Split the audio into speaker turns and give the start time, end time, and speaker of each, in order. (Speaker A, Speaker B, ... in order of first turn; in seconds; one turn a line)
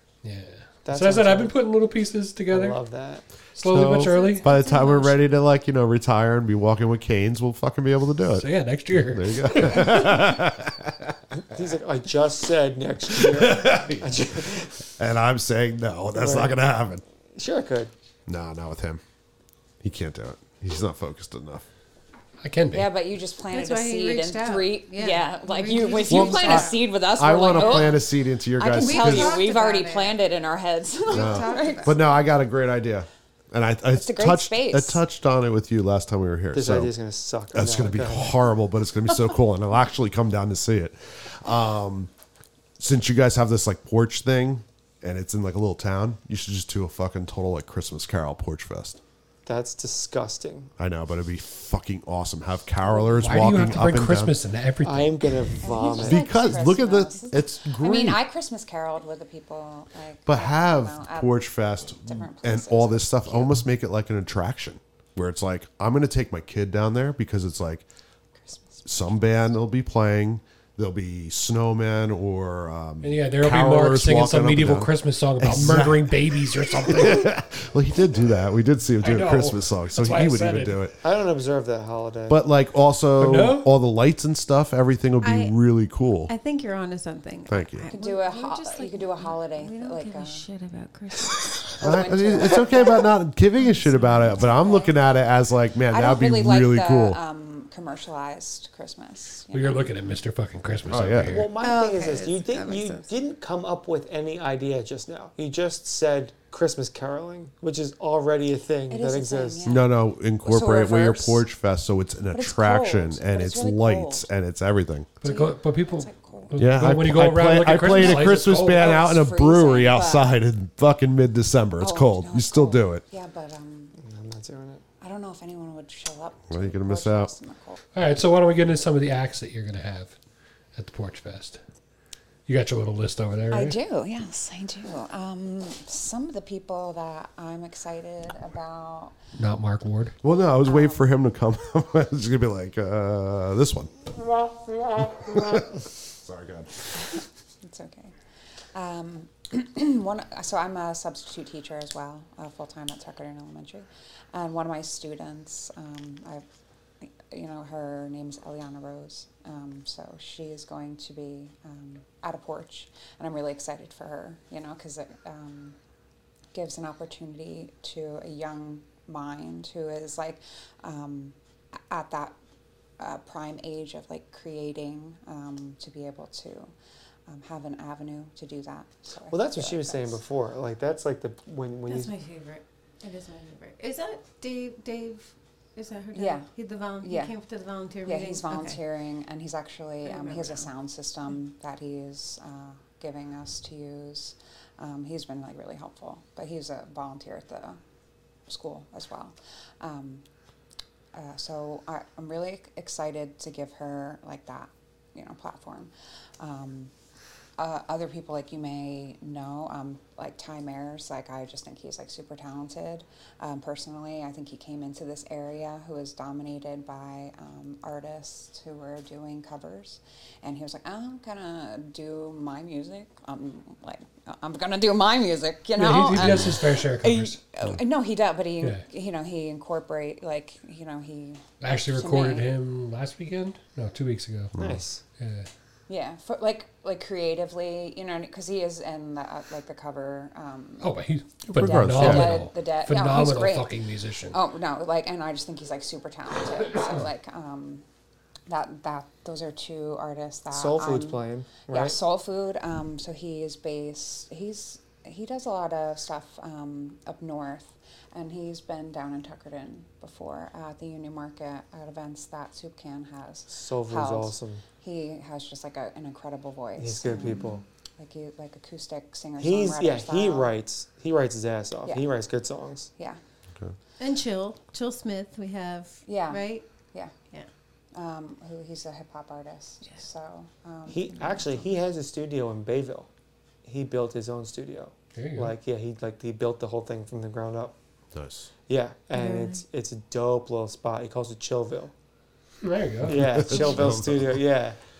Speaker A: 0.2-2.8
Speaker B: 0.8-1.5
Speaker B: 2.5-3.2
Speaker A: 3.5-4.4
Speaker C: 3.6-11.2
Speaker D: 3.9-5.4
Speaker A: 8.3-10.1
Speaker B: 11.3-14.9
Speaker C: 13.1-17.0
Speaker B: 16.1-16.5
Speaker B: 17.3-17.9
Speaker C: 18.3-19.0
Speaker C: 19.8-21.6
Speaker A: 22.4-22.9
Speaker E: 22.7-32.0
Speaker D: 23.5-26.8
Speaker C: 26.1-29.4
Speaker D: 27.5-27.9
Speaker D: 28.7-30.2
Speaker D: 31.1-32.0
Speaker C: 31.1-36.9
Speaker E: 33.9-35.0
Speaker B: 36.5-38.4
Speaker C: 37.5-42.1
Speaker C: 42.8-49.0
Speaker B: 49.5-50.7
Speaker C: 50.8-54.3
Speaker A: 53.1-55.6
Speaker B: 54.8-56.2
Speaker E: 55.6-63.6
Speaker C: 56.0-58.2
Speaker C: 60.3-67.8
Speaker E: 68.4-69.0
Speaker C: 68.8-81.0
Speaker A: 73.0-77.3
Speaker A: 79.0-80.8
Speaker B: 81.0-82.4
Speaker C: 82.3-86.3
Speaker A: 83.2-83.7
Speaker D: 85.2-85.5
Speaker D: 86.3-91.8
Speaker C: 87.5-87.9
Speaker E: 87.9-90.5
Speaker E: 91.7-93.1
Speaker C: 91.8-97.2
Speaker D: 93.6-94.5
Speaker E: 94.4-94.9
Speaker E: 95.9-99.9
Speaker A: 99.5-101.5
Speaker C: 100.9-101.4
Speaker B: 101.3-109.6
Speaker D: 101.6-103.1
Speaker E: 108.9-111.4
Speaker C: 109.6-115.1
Speaker E: 112.3-114.3
Speaker A: 115.2-119.0
Speaker E: 115.2-116.5
Speaker C: 116.5-123.0
Speaker E: 118.0-120.3
Speaker E: 121.8-124.0
Speaker B: 124.0-124.8
Speaker E: 125.0-127.8
Speaker C: 126.5-127.3
Speaker A: 127.9-130.2
Speaker A: 130.7-131.6
Speaker A: 132.5-133.8
Speaker E: 133.5-139.2
Speaker A: 139.3-140.2
Speaker C: 140.2-144.1
Speaker E: 140.6-141.1
Speaker C: 144.9-147.2
Speaker E: 147.6-148.1
Speaker E: 148.7-156.4
Speaker E: 157.0-165.8
Speaker E: 166.5-172.3
Speaker E: 173.0-176.7
Speaker E: 177.3-180.2
Speaker B: 179.3-182.1
Speaker D: 181.9-188.8
Speaker E: 186.1-186.5
Speaker E: 187.0-187.3
Speaker E: 188.0-197.8
Speaker D: 190.0-190.7
Speaker E: 198.5-200.2
Speaker E: 201.1-206.9
Speaker E: 207.6-232.5
Speaker A: 225.8-227.4
Speaker A: 231.6-234.5
Speaker C: 234.5-234.8
Speaker B: 234.6-235.0
Speaker A: 235.2-235.5
Speaker E: 235.9-240.9
Speaker A: 240.8-244.4
Speaker C: 241.5-242.4
Speaker E: 241.6-243.7
Speaker E: 244.3-247.8
Speaker E: 248.5-270.5
Speaker B: 250.5-251.9
Speaker B: 263.5-264.6
Speaker B: 266.8-267.6
Speaker D: 267.1-267.5
Speaker B: 269.4-272.9
Speaker D: 274.0-276.7
Speaker E: 276.1-277.1
Speaker E: 277.9-281.2
Speaker B: 280.9-283.1
Speaker B: 283.6-287.8
Speaker A: 285.1-285.5
Speaker C: 288.1-288.5
Speaker B: 288.7-291.9
Speaker D: 289.1-289.6
Speaker A: 292.6-293.4
Speaker B: 293.1-294.8
Speaker C: 293.1-294.4